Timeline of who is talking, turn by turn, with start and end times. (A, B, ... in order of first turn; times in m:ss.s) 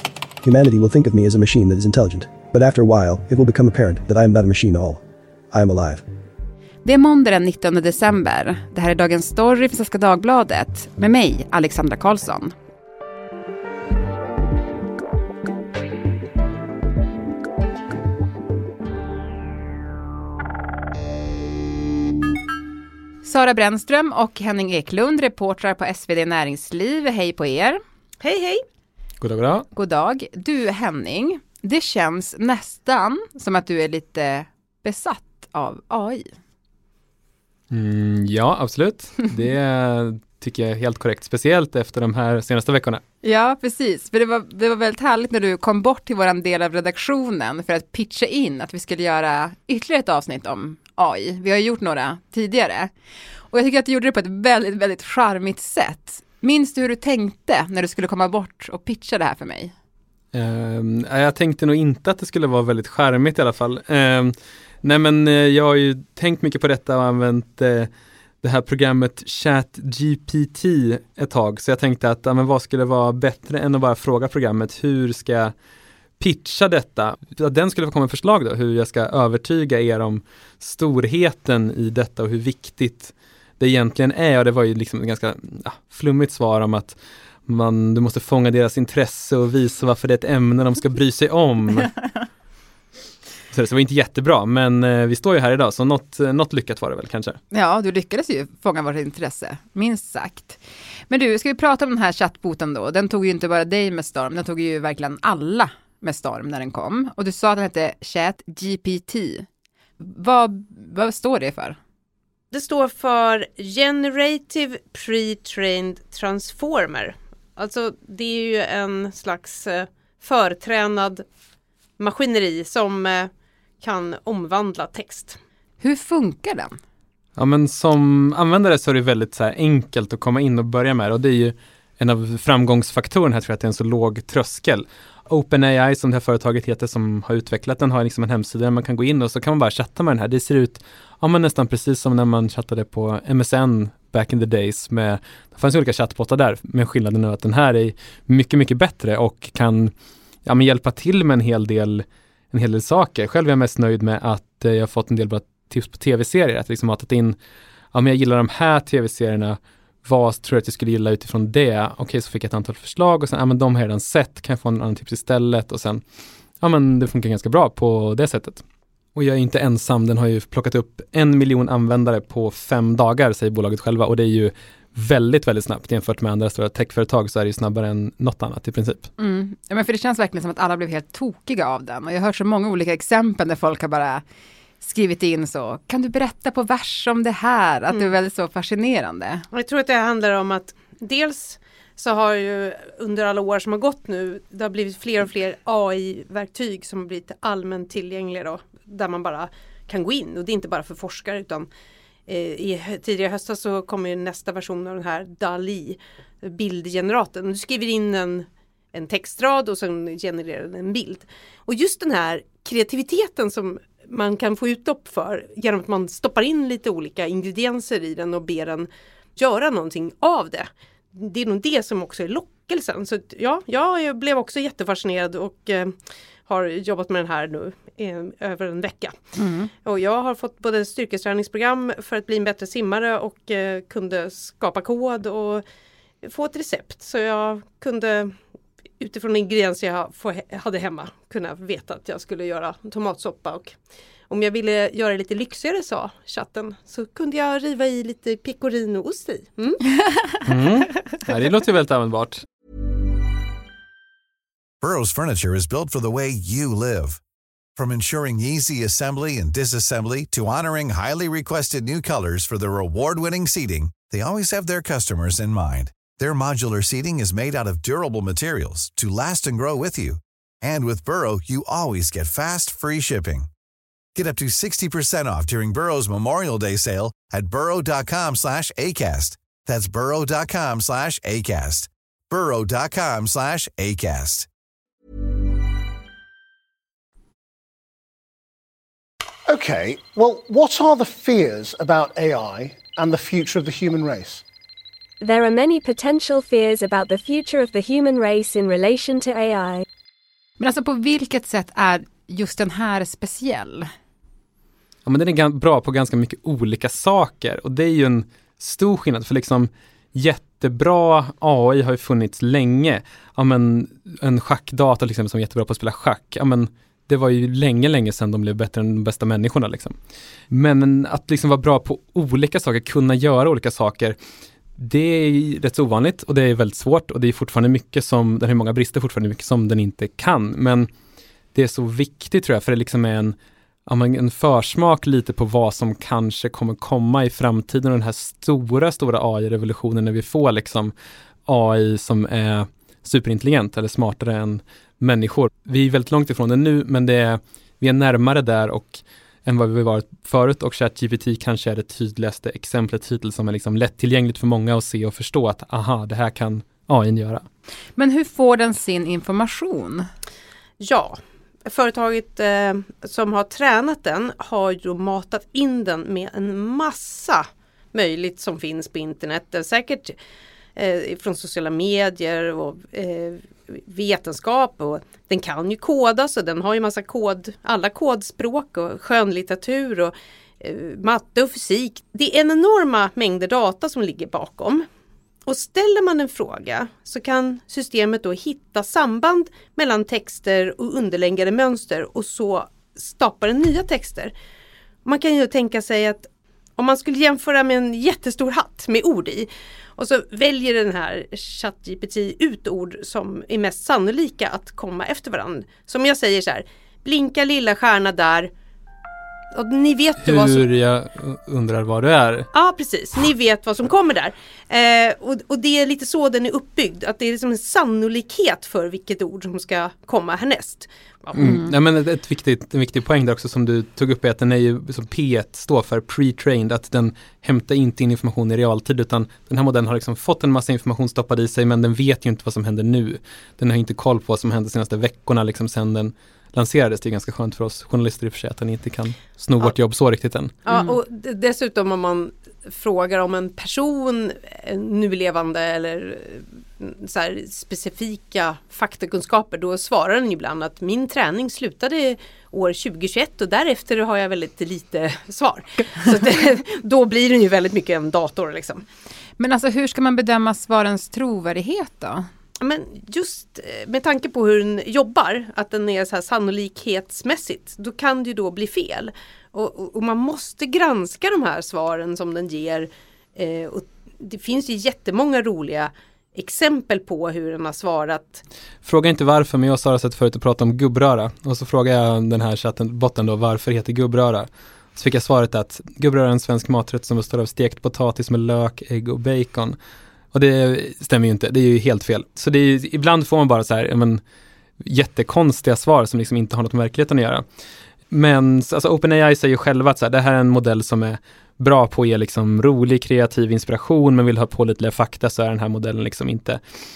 0:00.4-0:05.0 A
0:05.5-0:06.0 A
0:06.8-0:12.5 B
0:23.2-0:27.8 B
0:28.2-0:28.6 C
0:29.2-0:29.7 D
0:29.7-0:36.3 B
0:37.7-0:43.0 D
0:43.2-0:52.9 B
0:53.5-0:59.7 B
1:00.3-1:07.9 D
1:08.4-1:15.5 D
1:16.2-1:32.0 D
1:33.5-1:37.4 D
1:37.5-1:49.5 B
1:50.0-1:51.8 B
1:52.5-2:01.2 C
2:02.0-2:05.4 C
2:05.8-2:06.8 B
2:07.4-2:29.9 D
2:30.4-2:37.4 D
2:37.9-2:46.0 D
2:46.6-2:48.6 D
2:49.2-2:59.1 D
2:59.2-3:04.2 B
3:04.8-3:09.4 B
3:09.5-3:21.7 C
3:22.3-3:49.2 C
3:49.4-3:49.7 B
3:49.8-3:55.6 C
3:56.2-3:58.4 C
3:59.0-4:03.8 C
4:04.3-4:09.8 C
4:10.4-4:12.4 D
4:14.8-4:17.2 E
4:17.8-4:33.5 E
4:34.2-4:44.5 E
4:49.5-4:54.4 F
4:55.2-4:59.8 G
5:00.6-5:03.9 B
5:05.0-5:20.0 D
5:20.5-5:24.2 D
5:24.8-5:30.9 D
5:31.5-5:40.9 D
5:41.5-5:57.5 D
5:58.0-6:00.1 B
6:00.8-6:10.2 C
6:10.8-6:24.8 C
6:25.5-6:34.3 C
6:35.0-6:48.5 C
6:49.5-6:50.6 C
6:50.2-6:52.5 D
6:52.5-7:01.5 C
7:01.3-7:20.6 D
7:20.6-7:38.8 C
7:20.7-7:21.0 B
7:39.4-7:42.3 B
7:42.6-7:58.4 C
7:58.8-8:09.8 D
8:10.3-8:14.2 D
8:14.8-8:17.4 D
8:18.1-8:26.6 D